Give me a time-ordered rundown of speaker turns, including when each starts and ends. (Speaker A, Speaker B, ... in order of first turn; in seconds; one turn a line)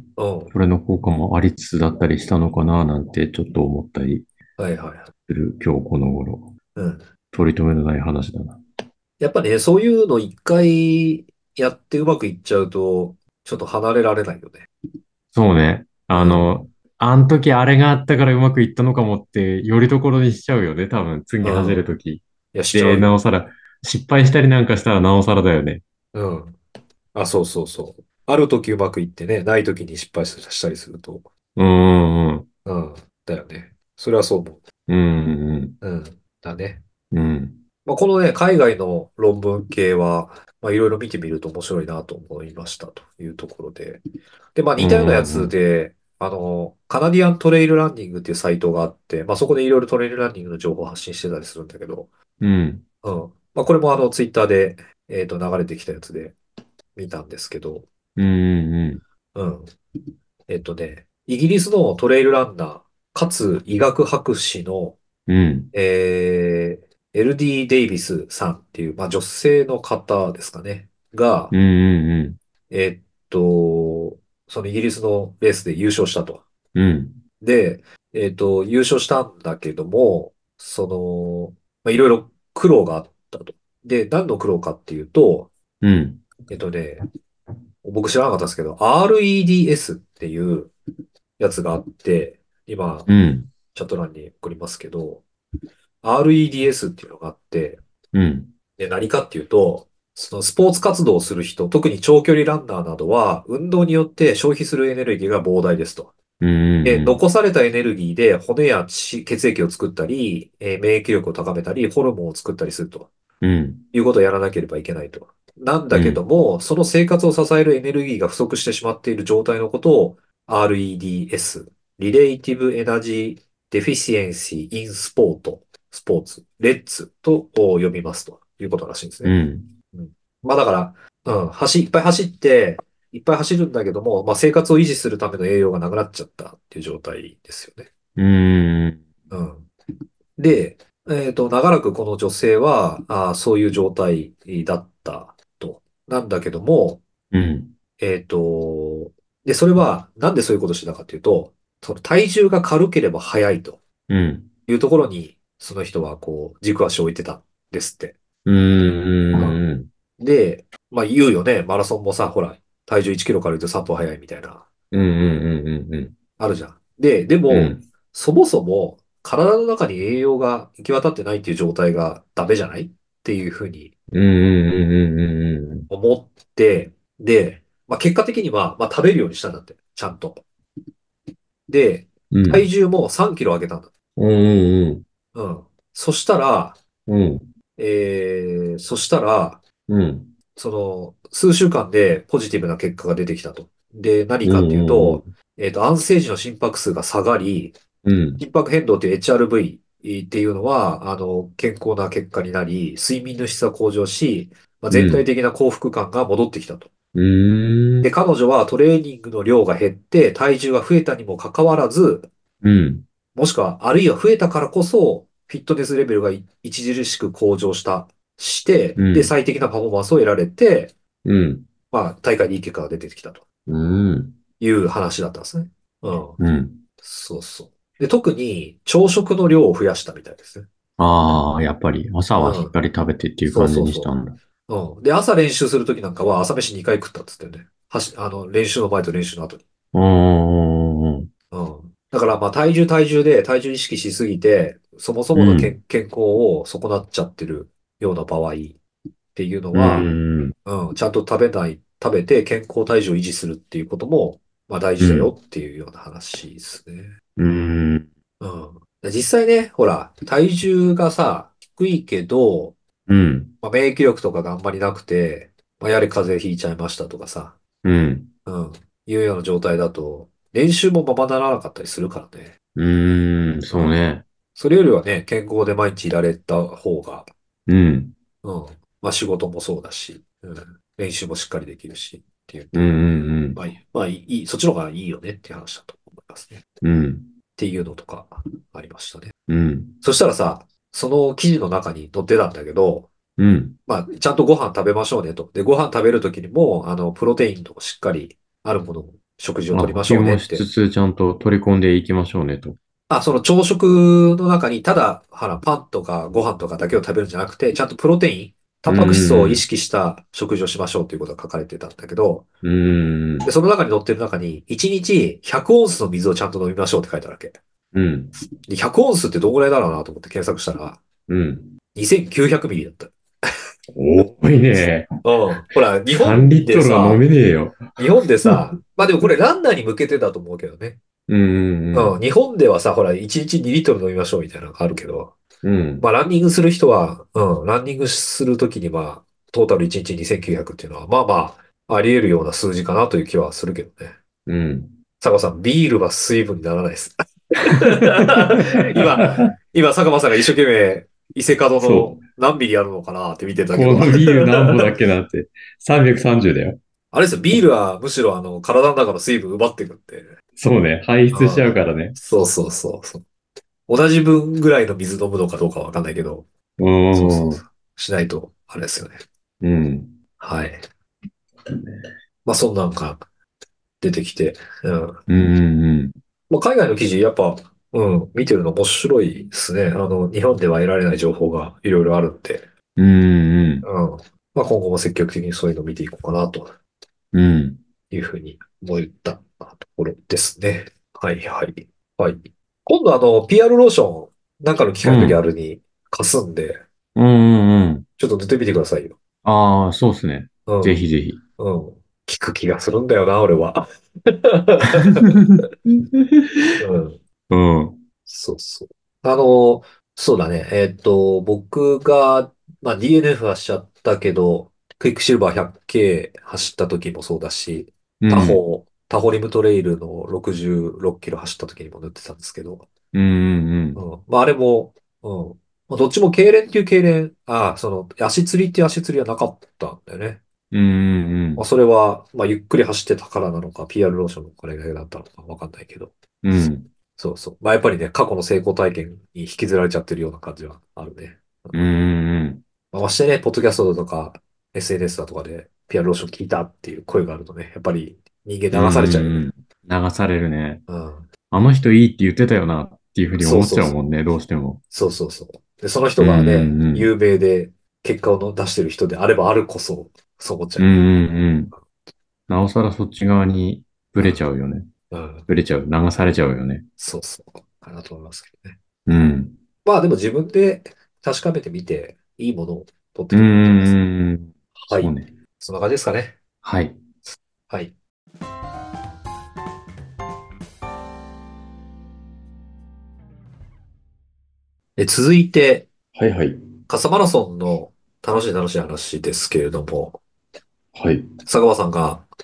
Speaker A: 0.2-0.5
Speaker B: 0.5-4.3
Speaker A: 4.6-5.1
Speaker B: 5.3-6.5
Speaker A: 6.8-7.0
Speaker B: 7.3-8.6
Speaker A: 9.2-14.7
Speaker B: 15.3-25.8
Speaker A: 16.1-16.6
Speaker A: 21.4-21.9
Speaker A: 22.5-23.2
Speaker A: 26.1-26.6
Speaker A: 27.1-31.3
Speaker B: 31.6-32.5
Speaker A: 32.6-34.6
Speaker B: 34.9-35.8
Speaker A: 35.8-36.8
Speaker B: 37.1-37.6
Speaker A: 37.9-44.0
Speaker A: 44.5-52.1
Speaker B: 44.8-45.5
Speaker B: 52.4-52.8
Speaker A: 53.0-56.4
Speaker A: 57.0-57.9
Speaker B: 58.2-59.0
Speaker A: 59.4-59.7
Speaker A: 60.5-65.0
Speaker B: 65.3-65.7
Speaker A: 65.7-71.5
Speaker B: 71.5-72.4
Speaker A: 72.7-76.4
Speaker B: 76.8-77.2
Speaker A: 77.4-85.5
Speaker B: 85.8-86.2
Speaker A: 86.5-87.0
Speaker A: 87.8-90.7
Speaker A: 91.4-93.1
Speaker B: 93.1-93.5
Speaker A: 93.7-95.3
Speaker A: 96.0-97.8
Speaker B: 98.1-98.5
Speaker A: 98.8-106.2
Speaker B: 106.4-107.2
Speaker A: 106.8-113.1
Speaker B: 113.4-113.9
Speaker A: 113.9-129.4
Speaker B: 115.9-116.2
Speaker B: 129.2-129.8
Speaker A: 129.9-137.9
Speaker B: 138.2-139.0
Speaker A: 139.3-139.7
Speaker A: 140.4-147.0
Speaker B: 147.3-147.8
Speaker A: 148.0-153.8
Speaker B: 154.1-154.5
Speaker A: 154.7-158.2
Speaker B: 158.4-159.9
Speaker A: 159.3-159.6
Speaker A: 160.2-164.7
Speaker B: 164.9-166.2
Speaker A: 166.4-173.9
Speaker B: 167.5-167.9
Speaker B: 174.1-175.9
Speaker A: 175.9-180.4
Speaker A: 181.7-183.9
Speaker B: 182.3-182.7
Speaker B: 184.2-185.0
Speaker A: 185.3-186.8
Speaker B: 187.1-187.5
Speaker A: 187.8-189.6
Speaker B: 189.9-190.3
Speaker A: 190.6-197.8
Speaker B: 194.4-195.3
Speaker B: 198.0-198.4
Speaker A: 198.4-206.9
Speaker B: 204.9-205.2
Speaker B: 207.2-208.1
Speaker A: 208.0-212.3
Speaker B: 212.6-213.0
Speaker A: 213.3-220.9
Speaker B: 219.0-219.3
Speaker B: 221.2-221.7
Speaker A: 221.9-223.4
Speaker B: 223.7-224.4
Speaker A: 224.6-226.4
Speaker B: 226.4-226.8
Speaker A: 227.0-230.7
Speaker B: 231.0-234.4
Speaker A: 232.4-232.7
Speaker A: 233.5-234.2
Speaker A: 234.7-239.6
Speaker B: 239.9-241.3
Speaker A: 241.5-248.8
Speaker B: 245.3-245.7
Speaker A: 249.3-250.1
Speaker B: 249.7-250.6
Speaker A: 250.7-257.1
Speaker B: 255.0-255.3
Speaker B: 257.4-258.1
Speaker A: 258.4-262.8
Speaker B: 263.1-263.5
Speaker A: 263.6-267.6
Speaker B: 267.8-268.3
Speaker A: 268.5-272.6
Speaker B: 272.8-274.2
Speaker A: 273.7-274.0
Speaker A: 274.6-277.3
Speaker B: 277.7-278.1
Speaker A: 278.4-283.0
Speaker B: 282.7-283.6
Speaker A: 283.6-286.6
Speaker B: 286.8-287.3
Speaker A: 287.6-289.3
Speaker B: 289.5-290.0
Speaker A: 290.0-293.1
Speaker B: 293.4-293.8
Speaker A: 293.9-300.6
Speaker B: 299.7-302.8
Speaker A: 303.1-312.5
Speaker B: 308.9-309.6
Speaker B: 312.6-313.5
Speaker A: 313.4-317.6
Speaker B: 317.9-318.4
Speaker A: 318.7-321.0
Speaker B: 321.3-321.7
Speaker A: 321.9-323.1
Speaker B: 323.9-325.1
Speaker A: 325.2-327.3
Speaker B: 326.1-328.6
Speaker A: 328.0-331.0
Speaker B: 331.3-332.2
Speaker A: 331.9-335.4
Speaker B: 335.6-336.1
Speaker A: 336.0-344.1
Speaker B: 344.5-344.9
Speaker A: 345.2-354.9
Speaker B: 348.2-349.3
Speaker B: 351.8-352.2
Speaker B: 353.7-356.8
Speaker A: 357.1-360.3
Speaker B: 360.6-362.2
Speaker A: 361.3-363.2
Speaker A: 363.9-366.5
Speaker B: 366.8-367.6
Speaker A: 367.1-369.2
Speaker B: 369.6-370.2
Speaker A: 370.4-370.8
Speaker A: 372.4-373.2
Speaker A: 374.0-375.2
Speaker B: 375.3-376.1
Speaker A: 376.5-382.7
Speaker B: 383.0-383.9
Speaker A: 383.8-386.7
Speaker B: 387.3-387.8
Speaker A: 388.1-396.8
Speaker B: 395.0-395.4
Speaker B: 397.1-398.1
Speaker A: 398.2-399.2
Speaker B: 399.4-401.4
Speaker A: 400.7-401.0
Speaker A: 401.6-405.4
Speaker B: 405.0-405.6
Speaker B: 406.1-406.8
Speaker A: 406.8-407.2
Speaker B: 407.5-408.0
Speaker A: 408.3-422.9
Speaker B: 418.2-418.6
Speaker B: 423.1-424.0
Speaker A: 424.0-430.4
Speaker B: 430.7-431.6
Speaker A: 431.6-436.6
Speaker B: 436.4-436.9
Speaker A: 437.2-441.9
Speaker B: 441.7-442.6
Speaker A: 442.9-449.4
Speaker B: 448.7-450.8
Speaker A: 450.9-451.3
Speaker B: 451.5-454.8
Speaker A: 453.4-454.0
Speaker A: 454.9-461.0
Speaker B: 456.2-457.1
Speaker B: 460.8-461.7
Speaker B: 462.5-464.9
Speaker A: 464.2-464.4
Speaker A: 465.1-465.5
Speaker B: 465.5-466.9
Speaker A: 467.0-468.8
Speaker B: 469.1-469.6
Speaker A: 469.9-474.0
Speaker B: 473.3-475.3
Speaker A: 474.8-476.4
Speaker B: 476.6-477.0
Speaker A: 477.7-477.9
Speaker A: 485.0-485.9
Speaker B: 486.1-486.6
Speaker A: 486.9-490.2
Speaker B: 490.9-491.3
Speaker A: 491.5-492.3